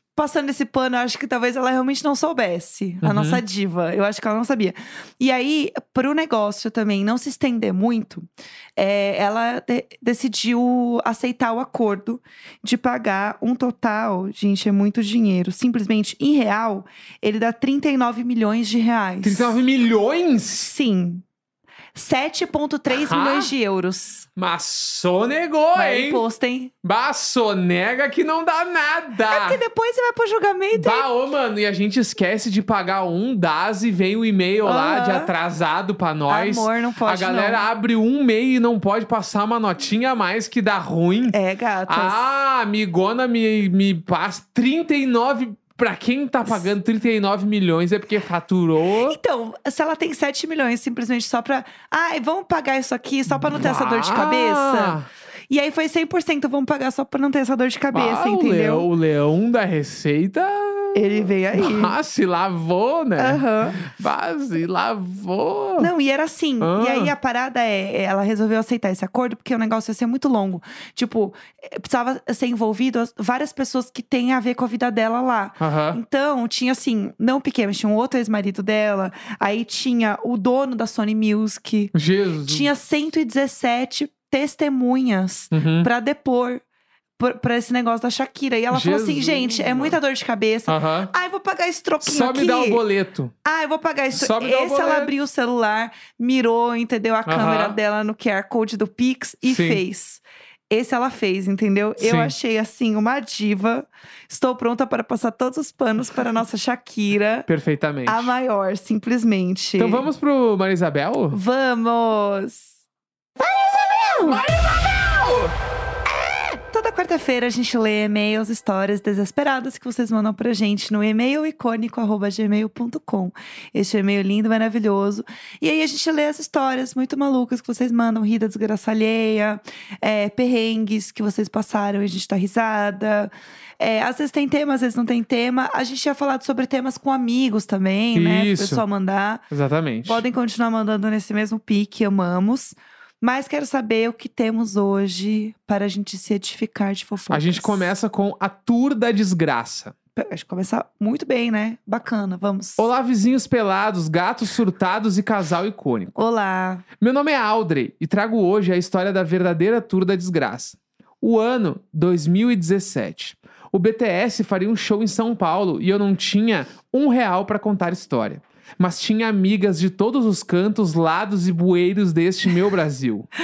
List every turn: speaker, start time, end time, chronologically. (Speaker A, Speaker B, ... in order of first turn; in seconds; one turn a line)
Speaker A: 0.2-8.3
Speaker B: 3.0-3.4
Speaker A: 8.8-19.6
Speaker B: 19.2-20.7
Speaker A: 20.6-21.2
Speaker A: 21.9-24.3
Speaker B: 22.9-23.5
Speaker B: 24.4-26.2
Speaker A: 25.7-26.7
Speaker B: 26.8-29.6
Speaker A: 29.3-31.1
Speaker B: 30.7-41.4
Speaker A: 34.6-35.3
Speaker A: 36.3-37.6
Speaker A: 41.3-42.2
Speaker B: 41.9-49.2
Speaker A: 49.1-55.0
Speaker B: 53.3-55.1
Speaker A: 55.5-58.9
Speaker B: 57.9-65.9
Speaker A: 61.0-62.0
Speaker A: 63.2-63.8
Speaker A: 65.8-86.6
Speaker B: 66.6-67.1
Speaker B: 75.6-76.0
Speaker B: 81.9-82.7
Speaker B: 85.5-85.9
Speaker A: 87.2-92.8
Speaker B: 88.7-90.0
Speaker B: 90.7-91.1
Speaker B: 92.0-93.3
Speaker A: 93.4-107.5
Speaker B: 94.1-95.2
Speaker B: 97.3-97.8
Speaker B: 99.5-99.8
Speaker B: 102.0-102.3
Speaker B: 107.5-108.3
Speaker A: 108.1-110.1
Speaker B: 109.8-111.4
Speaker A: 111.3-112.7
Speaker A: 113.6-114.5
Speaker B: 114.1-115.5
Speaker A: 116.7-139.4
Speaker B: 138.1-138.8
Speaker B: 139.5-140.2
Speaker A: 140.1-147.9
Speaker B: 147.3-149.9
Speaker A: 150.2-152.9
Speaker B: 152.8-156.2
Speaker A: 156.2-156.8
Speaker B: 157.0-173.3